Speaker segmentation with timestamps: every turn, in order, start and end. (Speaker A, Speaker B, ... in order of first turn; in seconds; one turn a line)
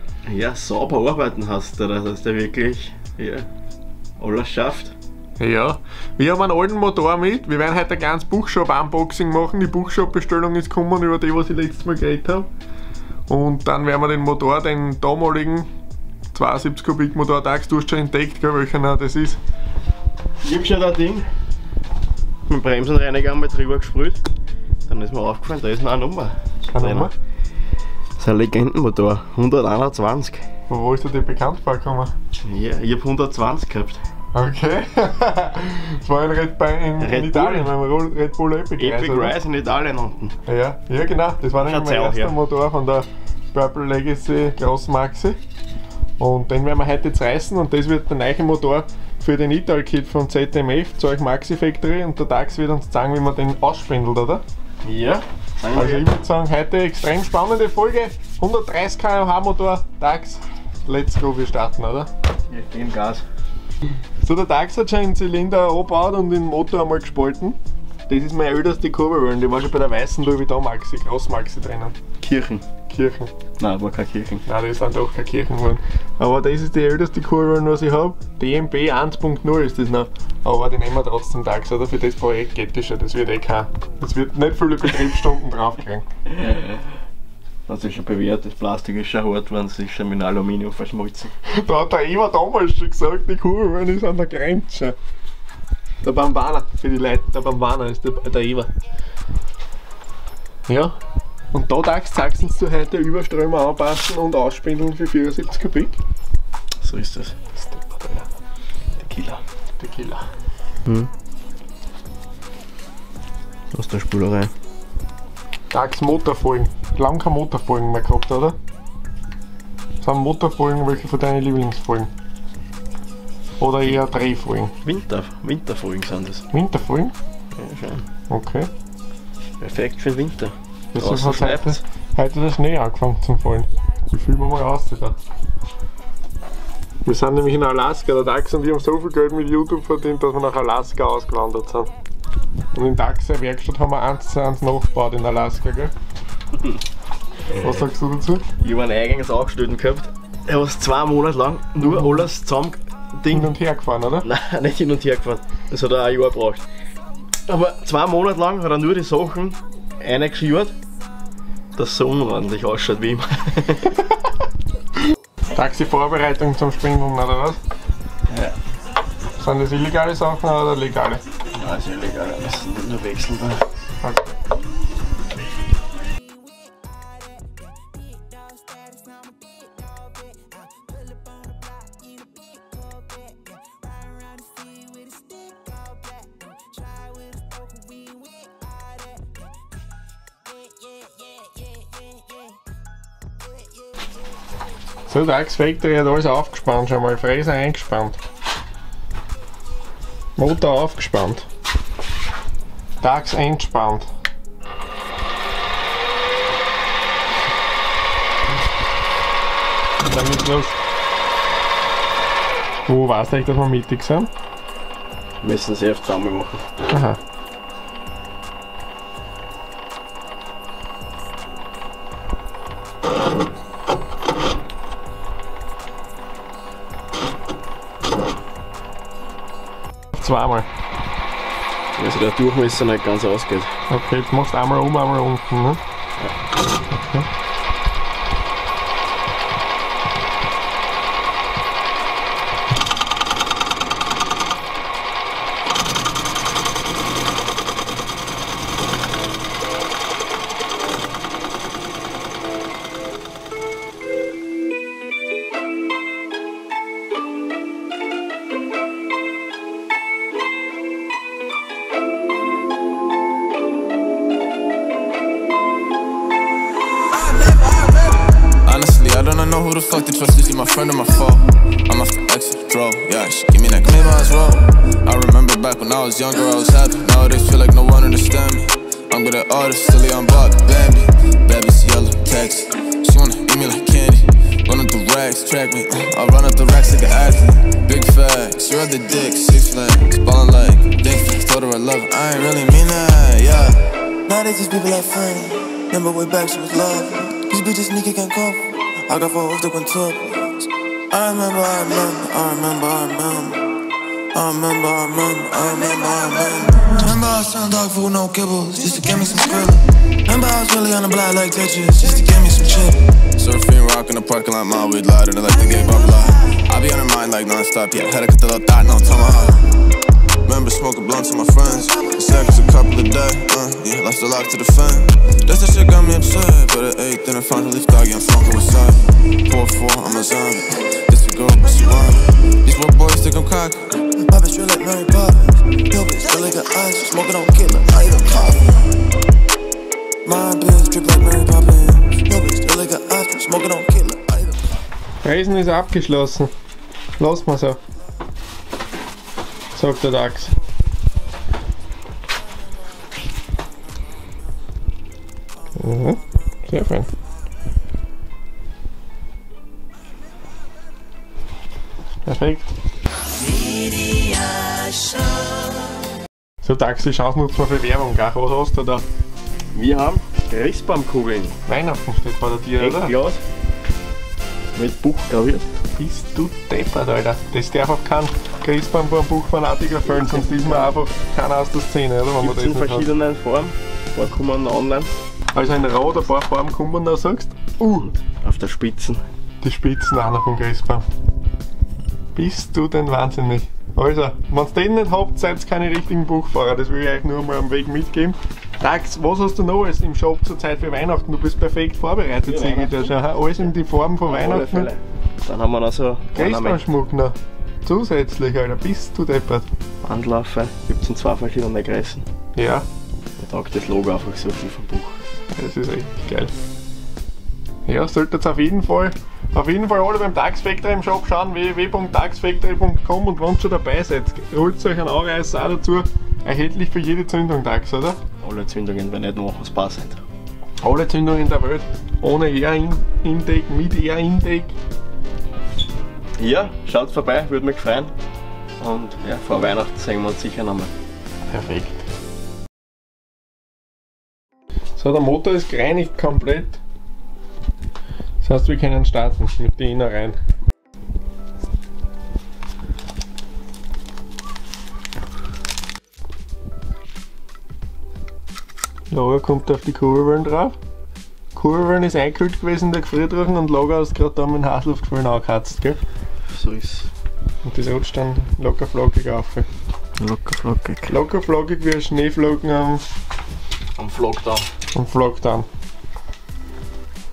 Speaker A: 0.3-3.5
Speaker A: 4.2-5.0
Speaker B: 5.4-12.5
Speaker B: 13.3-15.7
Speaker B: 16.3-19.4
Speaker A: 20.4-21.3
Speaker A: 22.5-24.2
Speaker A: 24.9-27.1
Speaker B: 26.7-27.1
Speaker A: 28.2-30.4
Speaker B: 30.7-32.1
Speaker A: 32.4-34.0
Speaker B: 34.3-39.4
Speaker A: 37.0-37.7
Speaker A: 38.8-40.4
Speaker B: 40.5-45.4
Speaker A: 41.6-42.4
Speaker B: 46.2-54.4
Speaker A: 54.8-56.1
Speaker B: 55.7-62.1
Speaker A: 62.5-63.2
Speaker B: 64.2-72.0
Speaker A: 72.2-72.7
Speaker B: 72.9-73.3
Speaker A: 73.6-74.4
Speaker B: 74.5-86.0
Speaker A: 86.3-86.8
Speaker A: 87.7-91.3
Speaker B: 91.5-95.0
Speaker B: 96.0-98.7
Speaker B: 100.7-101.0
Speaker B: 101.5-106.0
Speaker A: 106.8-107.3
Speaker B: 107.6-108.3
Speaker A: 109.0-109.4
Speaker B: 109.8-110.2
Speaker A: 110.8-111.1
Speaker A: 113.7-114.5
Speaker B: 115.7-118.6
Speaker B: 120.0-122.1
Speaker B: 123.6-124.7
Speaker A: 124.8-126.4
Speaker B: 126.5-127.1
Speaker A: 127.5-128.1
Speaker B: 128.3-128.7
Speaker A: 129.6-131.8
Speaker B: 130.9-135.2
Speaker B: 137.1-141.9
Speaker B: 142.7-145.9
Speaker B: 147.6-148.4
Speaker A: 148.6-153.5
Speaker B: 151.8-152.3
Speaker B: 153.3-154.3
Speaker A: 154.2-156.6
Speaker A: 157.5-160.7
Speaker A: 161.8-163.9
Speaker B: 165.5-167.6
Speaker A: 168.3-168.5
Speaker B: 169.4-171.2
Speaker A: 171.5-173.6
Speaker B: 174.0-174.4
Speaker B: 195.1-198.2
Speaker B: 200.4-201.5
Speaker B: 203.0-204.1
Speaker B: 210.1-210.8
Speaker B: 212.9-214.3
Speaker A: 215.4-216.6
Speaker B: 216.9-217.2
Speaker B: 230.1-230.7
Speaker A: 232.0-233.7
Speaker B: 233.9-235.8
Speaker B: 236.9-237.3
Speaker C: 268.6-293.7
Speaker D: 287.4-287.8
Speaker D: 292.8-293.2
Speaker D: 293.8-300.5
Speaker D: 301.1-303.6
Speaker D: 304.3-313.0
Speaker C: 313.4-319.6
Speaker C: 320.4-333.9
Speaker D: 330.6-330.9
Speaker D: 333.9-338.6
Speaker D: 340.2-344.5
Speaker B: 345.2-346.5
Speaker B: 347.2-347.8
Speaker B: 349.7-350.5
Speaker B: 355.8-357.1
Speaker B: 362.2-362.7
Speaker B: 366.6-369.0
Speaker A: 369.7-371.6
Speaker B: 371.7-373.1
Speaker A: 372.8-373.4
Speaker A: 374.8-375.7
Speaker B: 376.0-383.1
Speaker A: 380.1-381.0
Speaker A: 382.4-385.1
Speaker B: 385.5-388.1
Speaker A: 388.2-389.2
Speaker B: 389.6-391.1
Speaker B: 392.4-404.9
Speaker A: 402.5-403.1
Speaker A: 404.3-406.9
Speaker B: 406.4-409.7
Speaker A: 410.0-412.3
Speaker B: 412.6-412.9
Speaker A: 413.4-415.2
Speaker B: 415.5-416.5
Speaker B: 417.9-428.2
Speaker A: 428.4-430.2
Speaker B: 430.8-434.8
Speaker A: 436.4-438.1
Speaker A: 438.8-440.9
Speaker B: 441.5-442.0
Speaker B: 445.0-446.8
Speaker B: 448.4-450.4
Speaker B: 459.1-460.8
Speaker B: 461.5-466.0
Speaker A: 466.5-467.1
Speaker B: 467.6-469.7
Speaker A: 470.2-471.2
Speaker B: 471.1-473.0
Speaker A: 474.0-474.7
Speaker B: 474.9-475.7